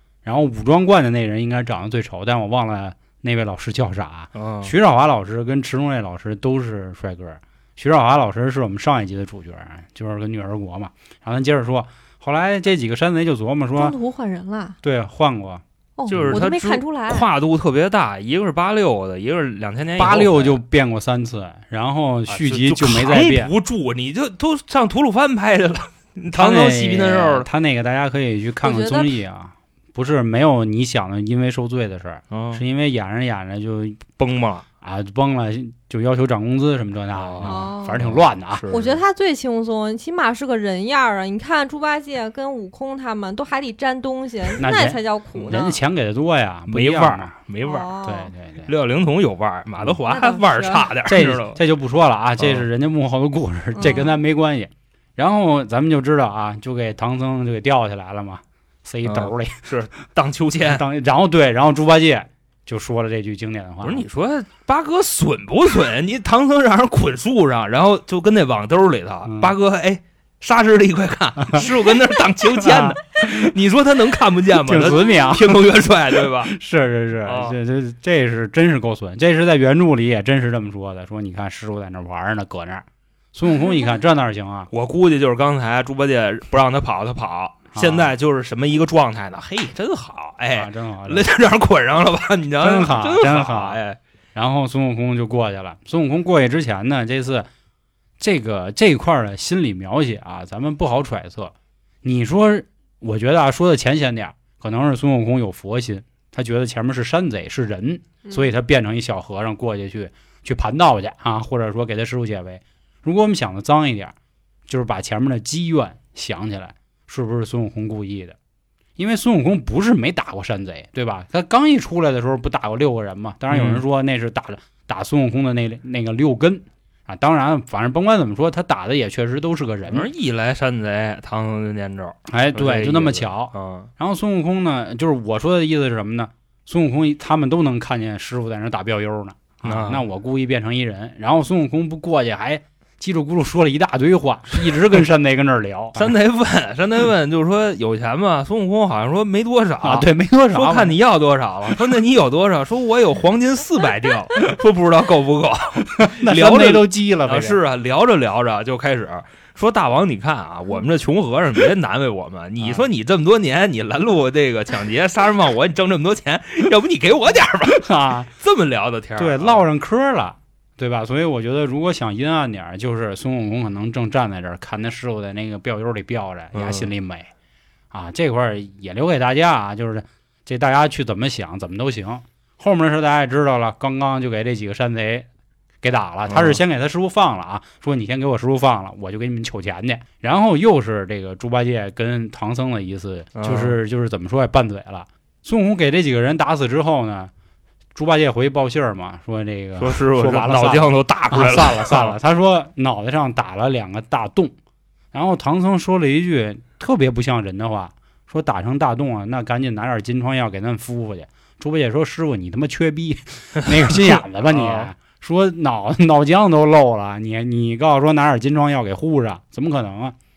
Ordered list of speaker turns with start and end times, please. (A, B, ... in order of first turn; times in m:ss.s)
0:00.2-0:14.0 A
0:04.4-0:04.7 B
0:13.8-0:14.8 C
0:14.8-0:16.4 A
0:16.0-0:17.3 C
0:16.1-0:20.6 B
0:20.0-0:23.5 A
0:22.3-0:27.5 B
0:26.3-0:34.0 A
0:28.6-0:29.1 C
0:32.3-0:32.6 B
0:34.2-0:34.6 B
0:34.8-0:38.7 A
0:37.2-0:39.0 B
0:37.4-0:38.1 C
0:38.7-0:45.8 C
0:44.6-0:47.4 A
0:46.7-0:47.9 B
0:47.6-0:48.3 C
0:48.0-0:48.7 A
0:48.7-0:51.6 B
0:50.1-0:50.9 C
0:51.1-0:59.7 A
0:52.4-0:52.6 B
0:53.8-0:54.2 C
0:59.0-1:00.8 B
1:00.7-1:04.0 A
1:03.8-1:16.5 B
1:09.2-1:09.5 A
1:12.6-1:13.0 A
1:14.6-1:15.8 A
1:16.4-1:24.7 A
1:17.2-1:17.6 B
1:24.7-1:34.0 B
1:27.7-1:28.1 A
1:30.5-1:31.3 A
1:32.6-1:33.8 A
1:34.4-1:37.5 A
1:38.2-1:54.1 A
1:54.7-1:58.4 A
1:59.0-2:10.1 A
2:03.5-2:03.8 B
2:09.9-2:13.9 B
2:12.3-2:26.1 A
2:19.6-2:20.0 B
2:26.0-2:49.6 B
2:29.8-2:31.0 A
2:35.9-2:37.6 A
2:42.6-2:42.9 A
2:47.7-2:48.3 A
2:49.2-2:57.3 A
2:56.5-2:56.9 B
2:57.9-3:05.3 A
3:05.8-3:17.3 A
3:06.3-3:06.6 B
3:13.4-3:13.8 B
3:18.0-3:24.6 A
3:19.8-3:22.2 B
3:25.1-3:40.2 A
3:33.9-3:34.9 B